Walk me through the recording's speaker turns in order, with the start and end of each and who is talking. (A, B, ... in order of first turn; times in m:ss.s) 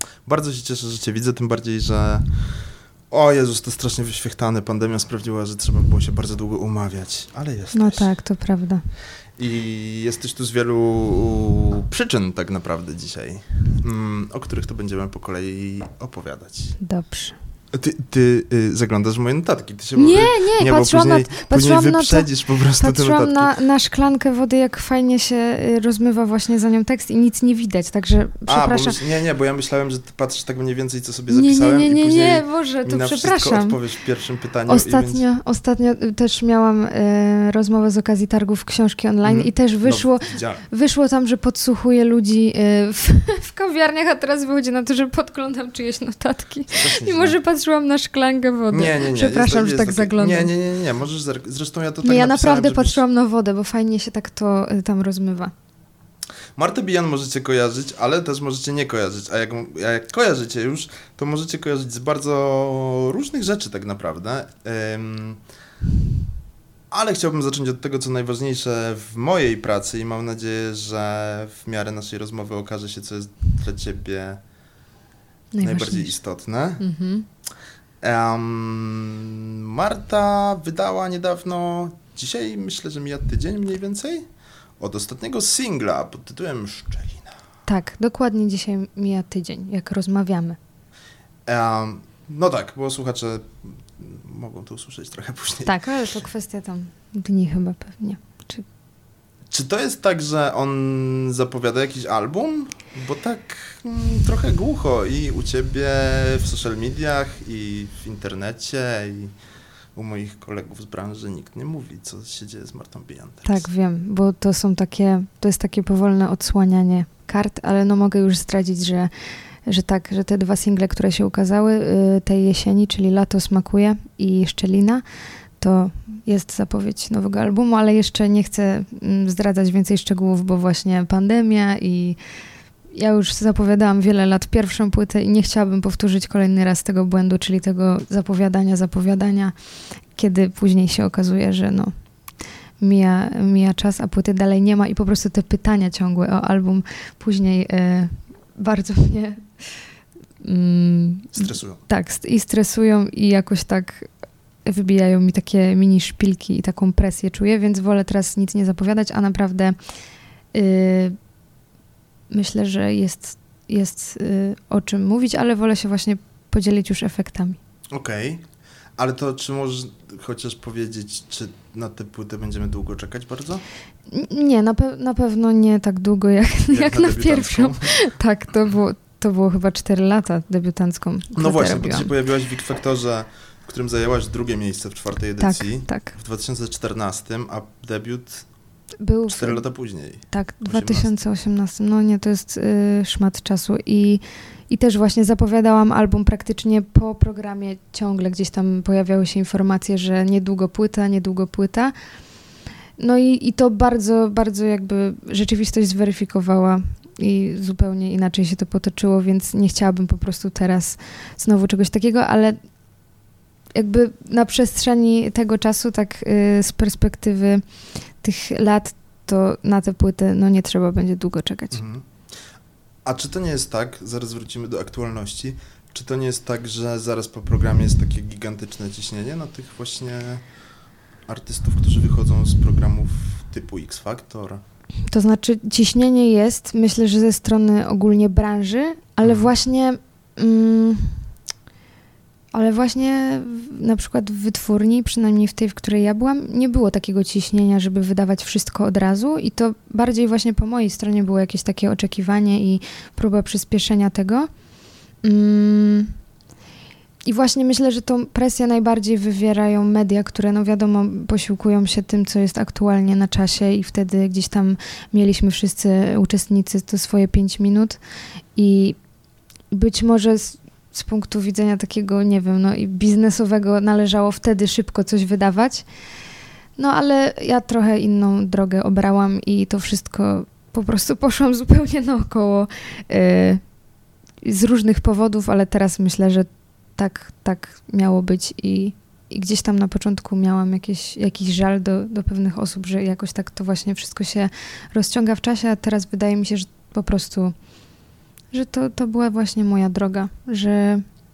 0:00.2-0:02.3 A
0:03.1-0:08.1 A
0:07.7-0:08.8 B
0:09.4-0:16.8 A
0:16.8-0:17.4 B
0:17.7-0:23.6 A
0:19.9-0:29.0 B
0:28.5-0:35.2 A
0:31.3-0:33.8 B
0:34.7-0:50.5 B
0:39.2-0:40.6 A
0:46.7-0:47.4 A
0:48.7-0:53.0 A
0:52.0-0:55.5 B
0:56.6-1:05.4 A
1:06.9-1:14.4 A
1:15.5-1:16.1 B
1:15.6-1:16.8 A
1:16.8-1:17.3 B
1:18.0-1:24.3 A
1:24.8-1:27.3 A
1:27.7-1:30.6 B
1:31.4-1:35.7 A
1:35.6-1:38.6 B
1:39.5-1:49.3 A
1:49.9-1:53.6 A
1:53.4-1:59.1 B
1:59.6-2:05.0 B
2:05.6-2:12.2 B
2:12.9-2:19.5 B
2:20.1-2:21.9 B
2:22.8-2:29.8 B
2:30.4-2:34.1 B
2:31.3-2:31.8 A
2:34.6-2:39.8 B
2:40.5-2:41.2 B
2:42.3-2:47.6 B
2:47.9-2:48.4 A
2:49.0-2:53.6 A
2:54.1-3:02.1 B
2:56.7-2:58.0 A
3:01.3-3:08.5 A
3:05.4-3:06.1 B
3:09.0-3:09.6 B
3:09.3-3:11.1 A
3:10.3-3:21.9 B
3:23.0-3:32.6 B
3:33.7-3:37.6 B
3:38.2-3:41.8 B
3:41.7-3:42.1 A
3:43.0-3:50.4 A
3:51.2-3:54.6 A
3:55.1-4:01.2 B
3:59.2-3:59.5 A
4:02.5-4:14.5 B
4:15.2-4:16.1 B
4:17.3-4:28.0 B
4:28.5-4:29.0 B
4:29.7-4:35.8 B
4:36.8-4:43.6 B
4:44.4-4:57.5 B
4:58.5-5:01.0 B